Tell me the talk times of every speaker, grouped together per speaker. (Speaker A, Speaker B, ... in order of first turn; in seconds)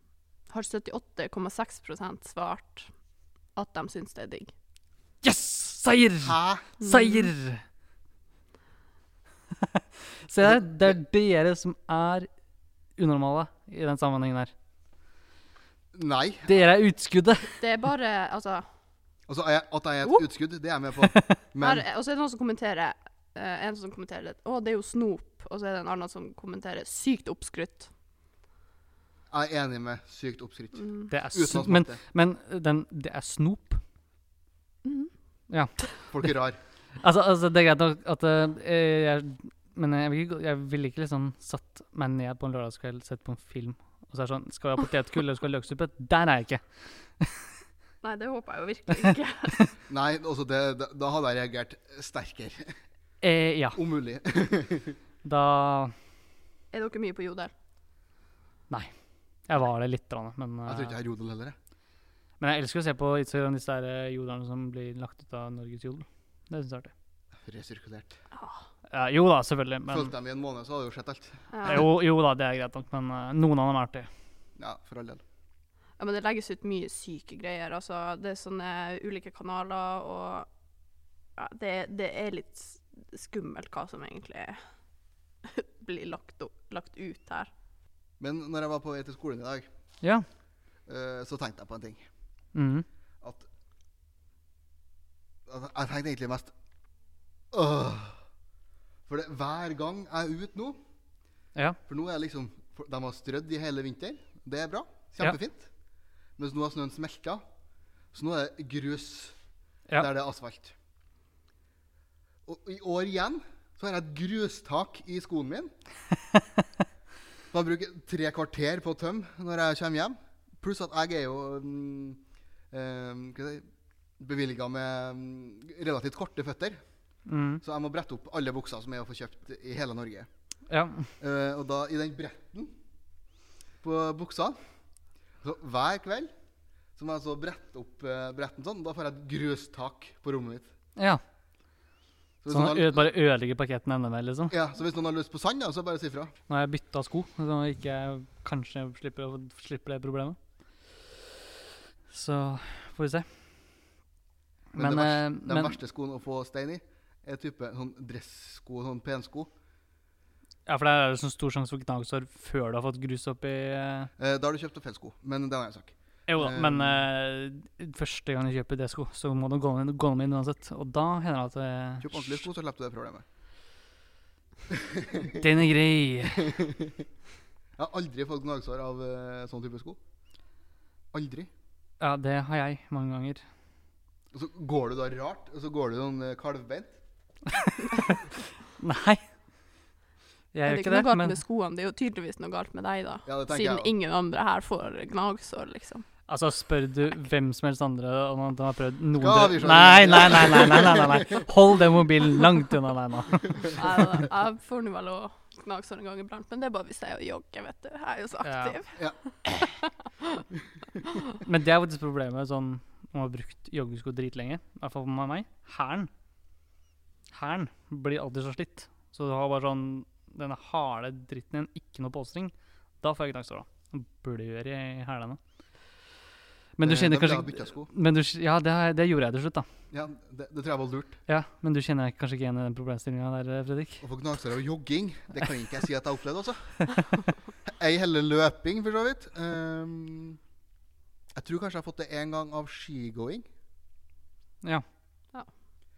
Speaker A: 0.5-2.9, 3.5-4.5, 6.8-7.3, 17.6-18.6, 21.6-27.9, 30.8-31.1, 34.8-35.1, 48.0-49.6, 56.7-57.5, 68.3-68.6, 71.5-71.8, 76.0-80.5, 81.4-84.6, 85.4-87.5, 190.7-196.1, 203.7-210.4
Speaker B: 5.2-7.6, 9.7-12.3, 12.9-14.5, 16.5-17.6, 31.1-33.8, 35.5-36.3, 37.0-47.4, 53.2-53.8, 55.2-55.9, 59.5-61.0, 62.4-66.9, 68.9-70.1, 71.7-74.1, 92.5-92.8, 127.3-127.6, 130.7-131.1, 140.9-141.2, 142.5-144.5, 146.5-150.4, 152.1-153.3, 154.7-155.8, 160.7-164.1, 166.3-172.4, 175.3-176.5, 182.0-183.4, 187.7-188.2, 188.8-189.2, 190.5-191.4, 196.3-203.8, 208.4-208.8, 211.3-216.1, 217.3-225.4, 226.8-229.7, 231.3-234.0
Speaker C: 6.2-6.7, 10.4-11.0, 15.9-16.7, 19.3-21.8, 29.3-32.0, 36.1-36.6, 49.9-52.8, 53.7-55.0, 60.6-61.5, 67.4-68.1, 69.9-71.8, 74.6-75.2, 88.2-89.7, 90.8-92.0, 93.2-93.5, 95.5-96.5, 97.5-98.2, 99.1-100.8, 101.9-105.7, 106.4-107.4, 108.1-109.3, 110.0-110.7, 112.5-115.7, 117.5-123.6, 124.2-126.8, 127.6-130.3, 131.2-132.7, 133.8-134.6, 135.4-136.3, 136.9-140.7, 142.4-143.1, 144.5-146.3, 154.8-159.5, 164.2-167.0, 172.0-173.2, 174.7-175.4, 176.4-176.9, 177.8-180.0, 181.1-181.5, 184.3-186.9, 193.2-193.9, 199.2-201.5, 209.0-209.7, 226.8-227.9, 229.9-231.2, 234.0-236.9, 237.7-240.4, 241.3-243.5